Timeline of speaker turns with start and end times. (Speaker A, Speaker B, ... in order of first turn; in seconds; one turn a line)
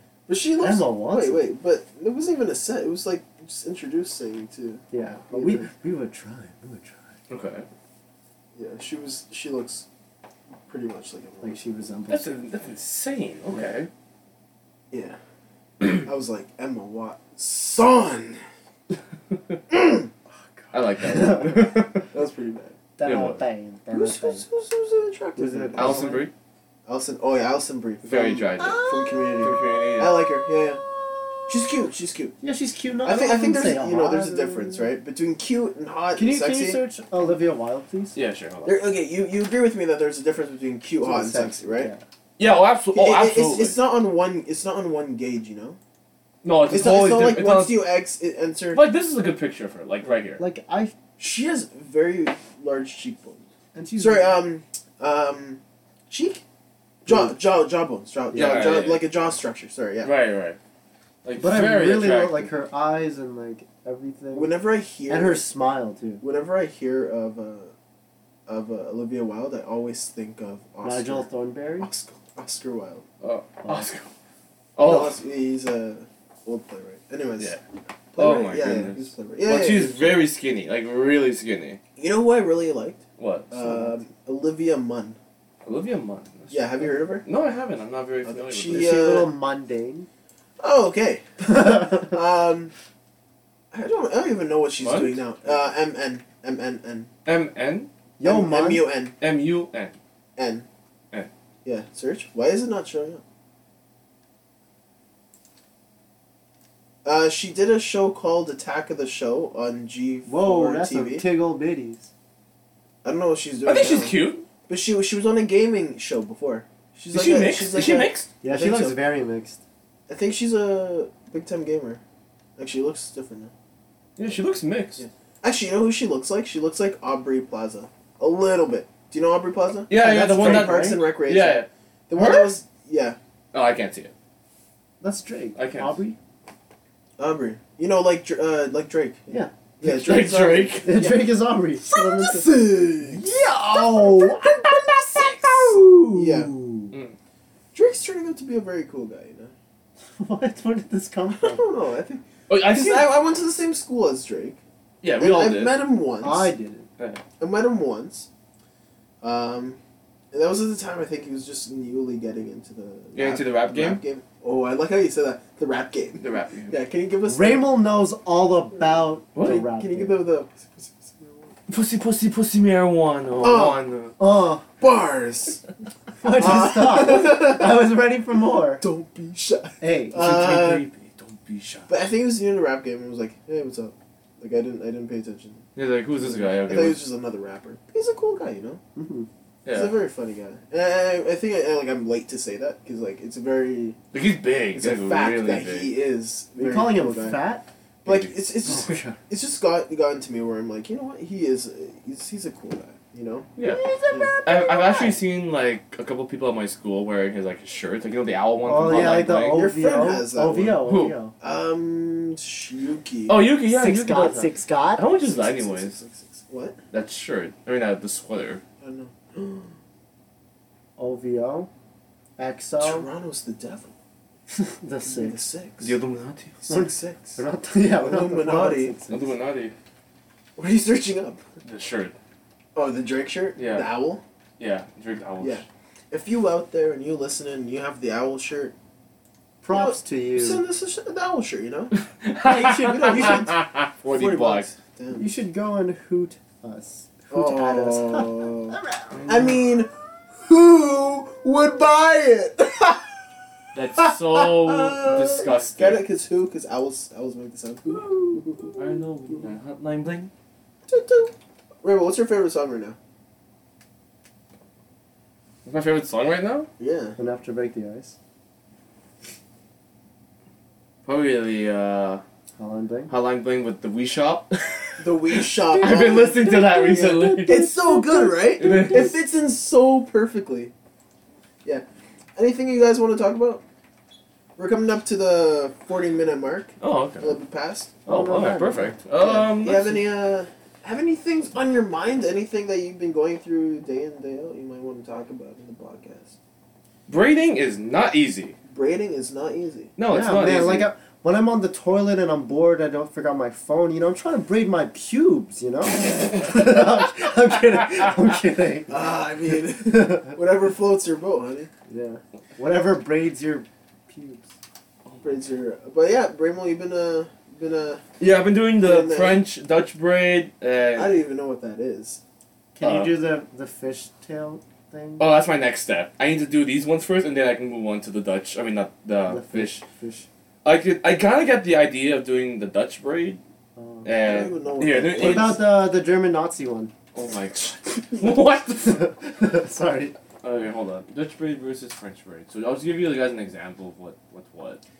Speaker A: 0.3-5.7
Speaker B: 0.6-1.4
Speaker B: 4.9-7.0
Speaker C: 7.3-7.7
Speaker A: 8.6-9.9
Speaker A: 10.6-11.6
Speaker B: 11.4-12.4
Speaker C: 12.1-13.9
Speaker A: 14.9-15.2
Speaker A: 15.8-18.4
Speaker C: 19.3-19.6
Speaker A: 19.7-20.1
Speaker B: 20.3-21.9
Speaker C: 20.7-22.1
Speaker A: 22.1-22.8
Speaker B: 23.0-24.4
Speaker C: 23.0-23.4
Speaker A: 23.9-26.1
Speaker B: 25.4-26.2
Speaker C: 25.8-26.3
Speaker A: 26.9-30.8
Speaker C: 28.0-28.8
Speaker B: 28.6-29.5
Speaker C: 29.4-30.2
Speaker B: 30.4-31.7
Speaker A: 31.5-32.4
Speaker B: 32.4-34.9
Speaker A: 33.0-36.8
Speaker B: 36.1-38.1
Speaker C: 38.1-38.8
Speaker A: 38.6-41.9
Speaker B: 41.0-42.0
Speaker C: 42.4-43.8
Speaker A: 42.9-45.8
Speaker C: 46.4-47.9
Speaker A: 46.7-48.8
Speaker C: 48.7-50.4
Speaker B: 50.4-51.0
Speaker A: 51.2-53.4
Speaker B: 53.7-54.4
Speaker A: 54.0-56.4
Speaker A: 57.0-60.1
Speaker B: 57.1-57.3
Speaker B: 58.3-58.7
Speaker C: 58.3-59.0
Speaker C: 60.0-60.6
Speaker C: 61.2-62.5
Speaker B: 61.4-64.5
Speaker A: 64.3-65.4
Speaker B: 65.1-66.2
Speaker A: 66.2-67.7
Speaker A: 68.5-71.3
Speaker B: 70.8-71.9
Speaker A: 71.8-73.0
Speaker C: 73.2-74.1
Speaker C: 74.8-75.2
Speaker A: 74.8-77.6
Speaker A: 78.1-80.2
Speaker C: 78.2-81.8
Speaker A: 82.0-85.2
Speaker C: 83.2-83.8
Speaker C: 85.6-88.9
Speaker A: 86.5-87.2
Speaker A: 88.2-89.3
Speaker B: 88.7-90.1
Speaker A: 90.6-92.7
Speaker B: 91.4-92.2
Speaker A: 93.7-97.1
Speaker C: 94.8-95.2
Speaker C: 97.2-97.9
Speaker B: 98.2-98.8
Speaker A: 98.2-99.2
Speaker C: 99.2-100.0
Speaker A: 100.4-100.7
Speaker A: 101.6-103.2
Speaker A: 107.0-111.2
Speaker B: 110.3-112.1
Speaker A: 113.0-119.0
Speaker C: 113.6-114.5
Speaker C: 117.1-118.3
Speaker B: 118.4-119.6
Speaker A: 120.1-122.0
Speaker A: 122.6-123.5
Speaker C: 124.2-125.0
Speaker A: 125.0-133.2
Speaker C: 129.9-132.5
Speaker B: 129.9-131.0
Speaker C: 133.5-134.1
Speaker B: 135.0-136.2
Speaker C: 135.6-136.0
Speaker A: 137.2-141.3
Speaker B: 139.3-146.9
Speaker C: 139.8-141.1
Speaker A: 141.8-146.5
Speaker A: 147.7-149.5
Speaker B: 150.2-151.6
Speaker A: 151.4-154.6
Speaker C: 152.5-153.1
Speaker C: 155.0-155.8
Speaker A: 155.2-156.5
Speaker B: 156.2-156.9
Speaker A: 157.4-158.3
Speaker A: 159.2-159.8
Speaker A: 160.3-167.7
Speaker C: 163.2-164.0
Speaker C: 166.2-166.7
Speaker B: 167.3-170.2
Speaker C: 169.3-169.6
Speaker A: 169.4-171.6
Speaker C: 171.7-174.1
Speaker A: 173.4-173.8
Speaker B: 174.2-174.7
Speaker A: 174.8-175.6
Speaker B: 176.2-178.8
Speaker A: 176.3-177.8
Speaker A: 178.8-180.8
Speaker B: 179.8-180.5
Speaker C: 180.1-181.9
Speaker A: 181.9-185.6
Speaker C: 185.8-187.0
Speaker A: 186.2-188.8
Speaker B: 188.9-189.3
Speaker C: 189.6-189.9
Speaker A: 189.7-194.0
Speaker C: 194.1-195.9
Speaker A: 194.8-197.4
Speaker B: 196.6-197.7
Speaker C: 198.0-198.5
Speaker A: 198.0-203.5
Speaker B: 198.6-199.2
Speaker C: 203.6-203.8
Speaker B: 203.6-205.2
Speaker C: 204.4-209.6
Speaker B: 208.6-211.3
Speaker A: 208.9-210.8
Speaker C: 210.8-211.2
Speaker A: 211.4-213.5
Speaker C: 213.3-216.0
Speaker B: 213.7-215.0
Speaker A: 215.2-216.8
Speaker C: 216.9-218.6
Speaker A: 218.8-219.7
Speaker B: 221.0-221.7
Speaker B: 222.4-223.1
Speaker A: 222.8-223.9
Speaker B: 224.5-225.4
Speaker A: 225.1-225.9
Speaker C: 225.8-226.6
Speaker A: 226.6-227.4
Speaker B: 226.7-229.3
Speaker A: 227.9-229.0
Speaker C: 229.1-229.7
Speaker A: 230.6-231.4
Speaker C: 231.6-232.1
Speaker A: 232.8-234.2
Speaker C: 233.6-233.9
Speaker C: 234.6-235.6
Speaker A: 235.4-238.7
Speaker B: 239.6-240.6
Speaker A: 239.7-245.3
Speaker C: 242.0-244.7
Speaker B: 245.1-249.2
Speaker A: 247.3-253.1
Speaker C: 249.1-249.6
Speaker C: 253.7-256.0
Speaker A: 253.9-259.0
Speaker B: 257.9-258.7
Speaker C: 258.8-260.3
Speaker A: 260.9-263.0
Speaker C: 265.6-266.7
Speaker A: 266.8-267.2
Speaker B: 267.2-268.1
Speaker C: 271.1-272.2
Speaker B: 272.6-273.1
Speaker C: 273.1-277.6
Speaker A: 275.0-276.4
Speaker B: 275.7-279.1
Speaker A: 277.4-280.7
Speaker C: 278.6-279.2
Speaker A: 282.4-283.6
Speaker A: 284.6-287.9
Speaker C: 286.8-287.4
Speaker B: 288.1-289.0
Speaker C: 288.1-290.0
Speaker A: 289.2-296.4
Speaker C: 297.1-298.6
Speaker A: 298.7-299.9
Speaker C: 300.0-300.9
Speaker B: 300.1-309.0
Speaker A: 308.9-311.7
Speaker B: 309.9-310.4
Speaker B: 311.9-314.5
Speaker A: 315.2-318.0
Speaker C: 318.2-321.2
Speaker A: 318.8-319.4
Speaker A: 320.9-322.2
Speaker B: 322.8-325.3
Speaker C: 322.8-323.1
Speaker C: 325.2-329.8
Speaker B: 329.3-330.3
Speaker C: 330.6-333.4
Speaker B: 333.8-334.1
Speaker C: 334.0-335.6
Speaker A: 334.1-335.6
Speaker B: 335.1-336.9
Speaker C: 337.1-339.2
Speaker B: 338.9-340.1
Speaker C: 340.4-344.8